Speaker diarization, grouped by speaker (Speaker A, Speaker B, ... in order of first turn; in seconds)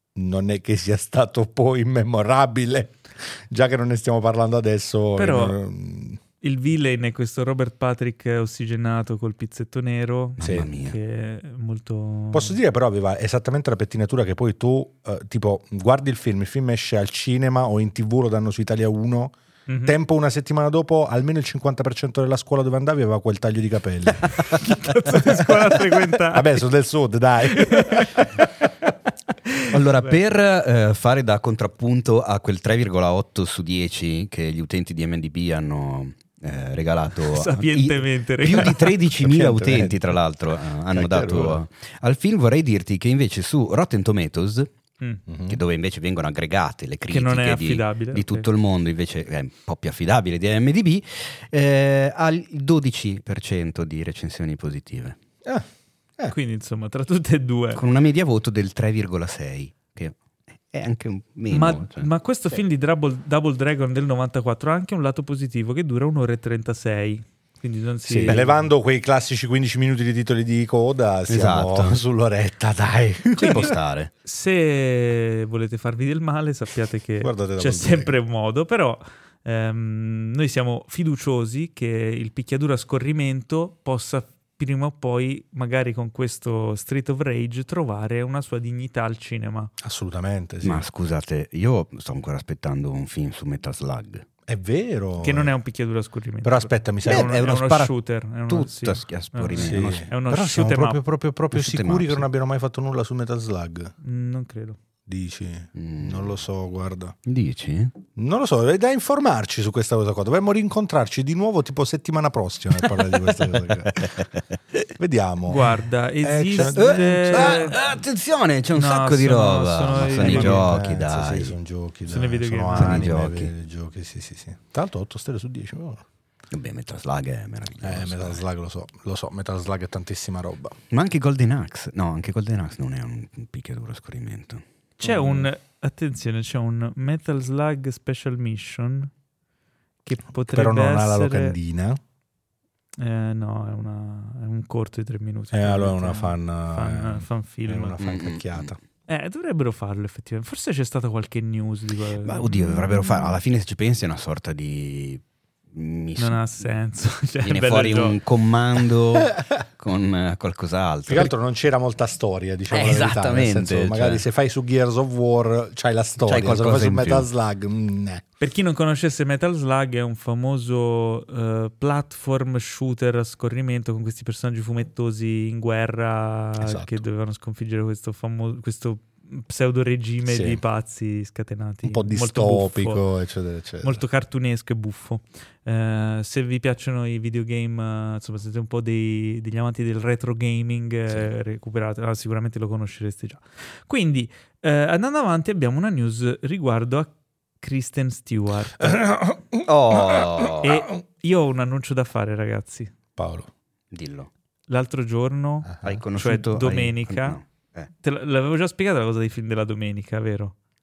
Speaker A: 0.1-6.2, 10.4-10.7, 12.3-24.6, 25.1-25.6, 26.3-28.2, 39.2-40.2, 40.9-41.6, 45.3-45.6, 68.1-73.7, 77.2-78.1, 89.8-90.9, 94.5-95.5, 96.4-97.4, 99.6-103.9, 105.1-107.2, 108.2-114.3, 115.0-115.7, 116.2-117.8, 120.0-126.0, 127.8-130.8, 135.0-135.5, 140.5-142.0, 145.5-148.8, 161.1-168.2, 176.6-177.0, 180.3-180.6, 181.8-184.0, 198.8-200.7, 203.2-203.5, 205.7-206.0
Speaker B: 5.2-5.6, 6.4-12.6, 19.7-20.0, 24.4-26.6, 27.5-28.3, 29.5-30.1, 37.3-39.0, 47.1-48.5, 56.3-57.8, 61.5-68.6, 73.4-73.7, 74.2-89.7, 95.2-101.0, 104.0-104.8, 115.5-117.8, 118.8-120.7, 122.1-123.2, 135.0-139.1, 140.1-141.6, 143.0-148.0, 149.1-153.0, 156.2-158.2, 168.4-183.0, 183.8-199.1, 200.6-202.9, 204.7-207.4, 208.0-210.6
Speaker C: 10.4-11.0, 29.7-44.7, 45.5-55.2, 57.8-60.2, 60.7-62.1, 71.3-72.0, 73.4-74.1, 90.6-94.2, 97.1-97.9, 98.5-100.1, 101.5-102.3, 105.8-106.4, 107.3-107.9, 112.8-114.4, 116.6-121.6, 122.8-123.5, 126.5-128.4, 130.9-134.6, 148.0-148.7, 152.2-156.4, 157.4-161.3, 162.7-164.2, 166.2-167.3, 199.7-200.7, 203.9-204.3, 205.8-207.9